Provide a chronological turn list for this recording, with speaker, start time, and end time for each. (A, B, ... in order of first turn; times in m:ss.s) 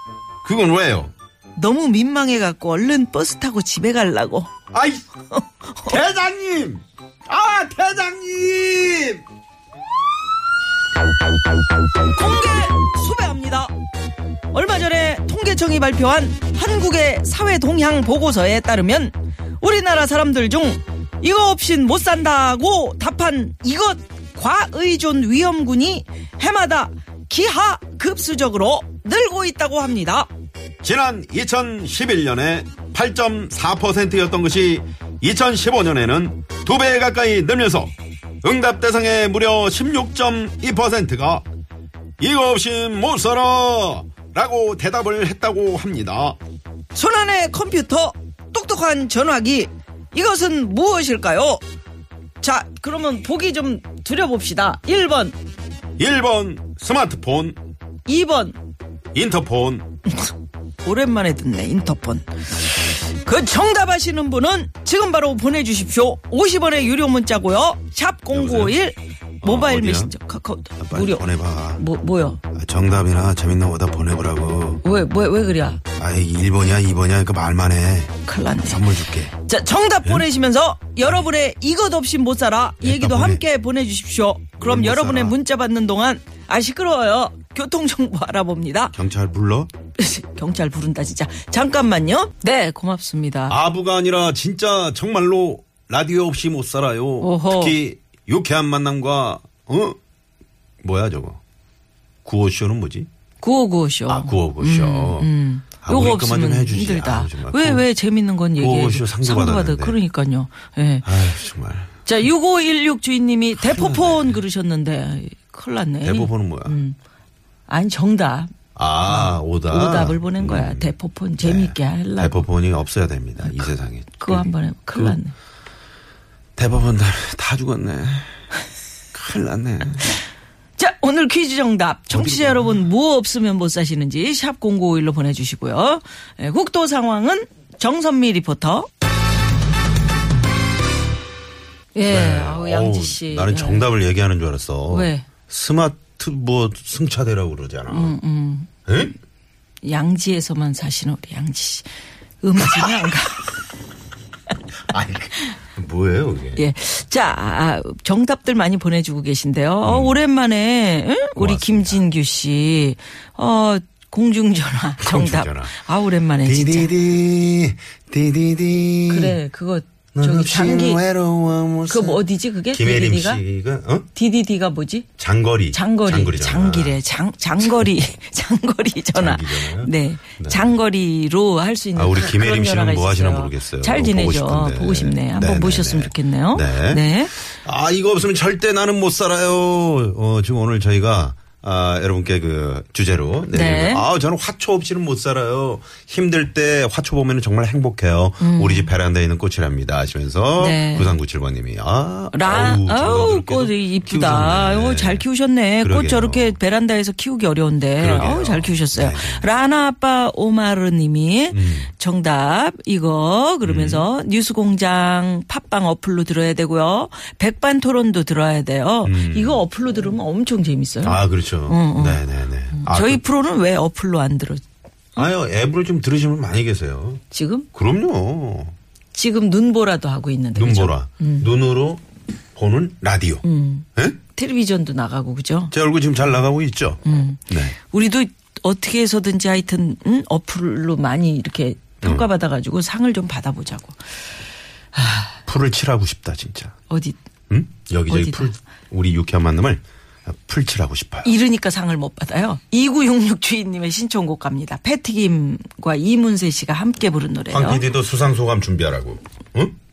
0:00.4-0:01.1 A
0:01.5-0:04.5 B
0:04.7-0:05.0 A
0:05.8-0:09.2 A
0:12.1-0:13.7 B
0:14.5-0:30.3 B
0:30.8-0:41.4 A
0:42.2-0:46.4 A
0:46.9-0:51.6 B
0:52.4-0:55.4 B
0:56.0-0:57.6 A
0:58.0-0:58.6 B
0:59.1-0:59.9 A
1:00.8-1:12.4 B
1:08.3-1:08.9 A
1:09.4-1:10.1 A
1:10.8-1:11.8 A
1:12.5-1:14.8 A
1:14.8-1:15.8 B
1:16.0-1:19.3 A
1:18.2-1:28.9 B
1:22.8-1:23.4 A
1:24.6-1:25.4 A
1:28.9-1:29.7 A
1:30.0-1:33.6 B
1:33.5-1:40.0 A
1:37.2-1:37.8 B
1:40.8-1:41.4 A
1:42.2-1:43.1 A
1:43.4-1:51.1 B
1:44.1-1:45.3 A
1:45.8-1:47.8 A
1:48.6-1:50.0 A
1:51.0-1:51.9 A
1:52.0-1:57.0 B
1:53.6-1:54.4 A
1:56.0-1:56.8 A
1:57.7-1:58.5 B
1:58.8-2:05.2 A
1:59.0-2:02.5 B
2:04.2-2:05.3 B
2:06.6-2:08.3 A
2:09.1-2:10.1 A
2:10.8-2:18.9 B
2:12.1-2:12.8 A
2:21.9-2:23.8 B
2:22.1-2:28.1 A
2:24.9-2:25.3 B
2:27.9-2:28.7 B
2:28.9-2:29.1 A
2:29.8-2:31.9 B
2:32.4-2:33.5 B
2:34.9-2:36.6 A
2:36.6-2:46.9 B
2:39.8-2:40.2 A
2:41.4-2:42.0 A
2:45.0-2:45.8 A
2:46.4-2:49.4 A
2:49.1-2:51.0 B
2:50.1-2:54.1 A
2:51.9-2:53.4 B
2:54.1-2:55.1 B
2:55.2-2:57.0 A
2:55.7-3:07.3 B
2:59.1-3:00.7 A
3:02.0-3:25.2 A
3:13.5-3:14.0 B
3:18.4-3:18.9 B
3:20.6-3:21.1 B
3:22.3-3:44.6 B
3:25.8-3:26.6 A
3:28.0-3:29.4 A
3:31.5-3:31.9 A
3:33.6-3:34.1 A
3:39.0-3:39.6 A
3:41.0-3:43.2 A
3:45.2-3:47.2 A
3:47.3-3:47.7 B
3:47.7-3:48.7 A
3:49.1-3:51.5 B
3:50.6-3:52.0 A
3:52.6-3:53.4 A
3:53.4-3:55.7 B
3:55.7-3:57.7 A
3:57.0-4:04.0 B
4:02.0-4:02.3 A
4:04.9-4:05.4 B
4:05.5-4:06.7 A
4:06.9-4:07.2 B
4:07.5-4:11.3 A
4:08.1-4:08.5 B
4:11.2-4:17.8 B
4:17.5-4:19.7 A